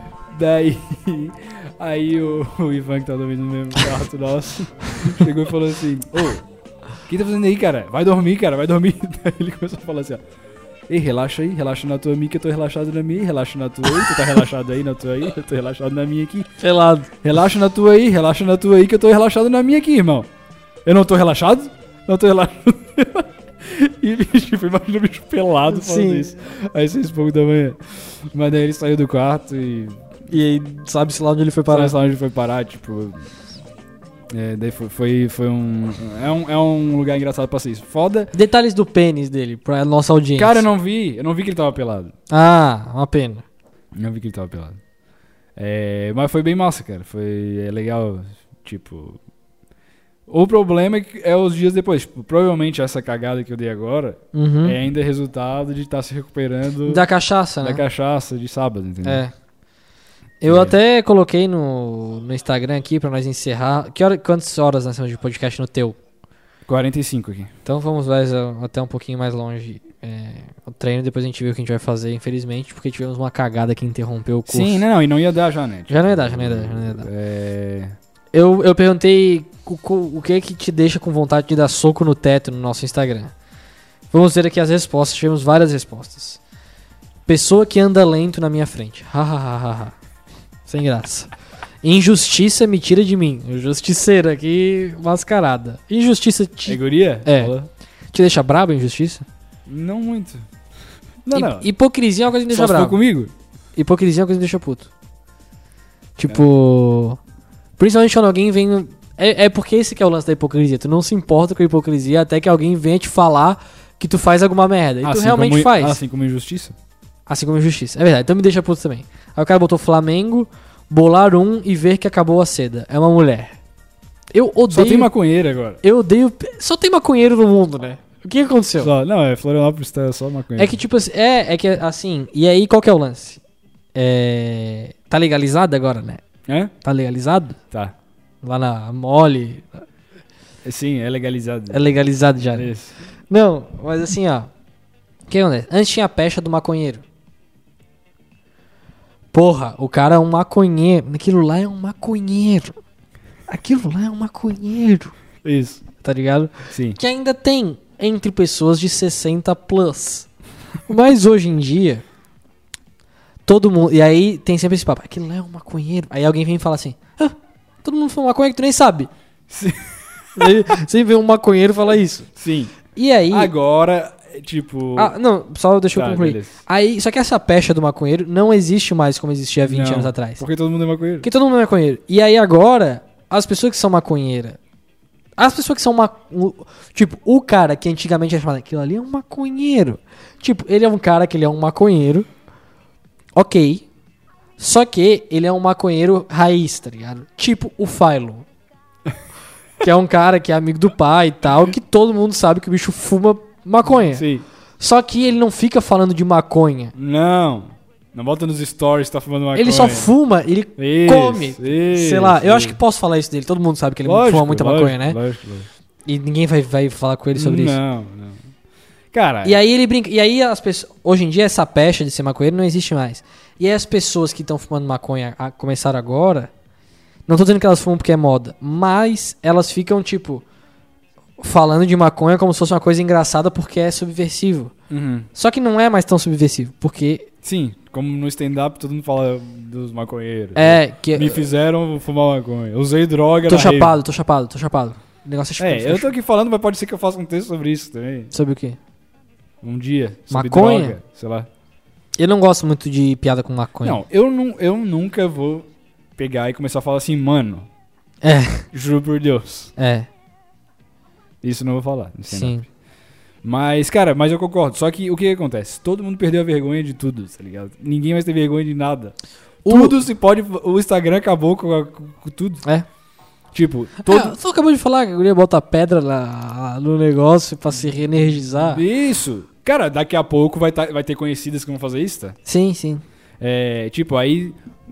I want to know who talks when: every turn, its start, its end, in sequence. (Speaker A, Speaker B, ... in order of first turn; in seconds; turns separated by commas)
Speaker A: 0.3-6.5, Speaker A: 7.1-10.2, Speaker A: 10.9-16.5, Speaker B: 16.6-17.1, Speaker A: 17.2-20.3, Speaker A: 20.9-30.0, Speaker B: 25.7-26.3, Speaker B: 30.3-31.9, Speaker A: 31.7-33.3, Speaker A: 34.3-38.3, Speaker B: 38.3-40.7, Speaker A: 40.4-42.1, Speaker B: 42.3-43.5, Speaker A: 43.9-44.8, Speaker A: 45.6-49.2, Speaker A: 50.3-57.0, Speaker B: 54.3-54.8, Speaker B: 56.9-57.8, Speaker A: 57.6-59.2, Speaker B: 59.0-59.3, Speaker B: 60.4-66.0, Speaker A: 60.5-60.8, Speaker A: 66.7-67.5, Speaker B: 67.7-74.8, Speaker A: 74.5-78.0, Speaker B: 75.9-77.1, Speaker B: 78.3-83.3, Speaker B: 84.1-86.4, Speaker B: 87.3-90.0, Speaker B: 90.7-91.3, Speaker B: 91.8-97.5, Speaker A: 96.7-97.7, Speaker B: 98.1-99.2, Speaker A: 99.7-100.5, Speaker A: 101.2-101.7, Speaker B: 101.3-103.0, Speaker A: 102.5-103.3, Speaker B: 103.8-104.9, Speaker B: 106.2-107.2, Speaker B: 107.8-116.0, Speaker A: 115.0-116.8, Speaker B: 117.3-123.6, Speaker B: 124.3-125.1, Speaker A: 124.7-125.8, Speaker B: 125.8-128.9, Speaker A: 128.8-130.8, Speaker B: 130.6-133.4, Speaker B: 133.9-136.2, Speaker A: 136.5-136.7, Speaker B: 136.8-137.6, Speaker B: 138.4-139.8, Speaker A: 140.6-141.8, Speaker B: 141.7-142.7, Speaker A: 142.5-142.9, Speaker B: 143.3-144.5, Speaker B: 145.3-147.0, Speaker B: 149.3-152.8, Speaker B: 153.5-155.1, Speaker A: 155.4-155.8, Speaker B: 156.0-160.3, Speaker A: 156.7-157.0, Speaker B: 160.9-162.1, Speaker B: 163.5-169.1, Speaker A: 169.5-170.6, Speaker B: 170.4-172.3, Speaker A: 172.4-172.7, Speaker B: 172.9-173.5, Speaker A: 173.3-175.2, Speaker B: 175.0-180.4, Speaker A: 175.9-176.6, Speaker A: 179.7-181.3, Speaker B: 181.2-184.6, Speaker B: 185.4-192.3, Speaker B: 193.4-193.9, Speaker B: 194.6-198.5, Speaker B: 199.8-204.2, Speaker A: 203.9-204.4, Speaker B: 204.8-206.9, Speaker A: 206.9-210.1, Speaker B: 209.6-215.2, Speaker A: 210.8-212.8, Speaker A: 214.1-215.7, Speaker B: 216.1-217.8, Speaker A: 217.3-218.4, Speaker A: 219.1-219.6, Speaker B: 219.4-226.5, Speaker B: 227.3-230.4, Speaker B: 231.4-234.7, Speaker A: 234.9-235.3, Speaker B: 235.3-237.3, Speaker A: 237.4-244.0, Speaker B: 240.6-241.4, Speaker B: 243.5-246.1, Speaker A: 245.6-248.3, Speaker B: 248.3-248.8, Speaker A: 249.6-251.5, Speaker B: 250.3-251.0, Speaker B: 252.2-254.0, Speaker A: 253.8-257.7, Speaker B: 258.2-258.7, Speaker A: 258.7-259.7, Speaker B: 259.8-260.1, Speaker A: 261.4-262.6, Speaker B: 262.3-262.7, Speaker A: 263.4-272.6, Speaker B: 269.6-270.0, Speaker A: 273.5-274.4, Speaker B: 274.0-278.8, Speaker A: 278.6-282.4, Speaker B: 282.5-283.0, Speaker A: 283.4-284.6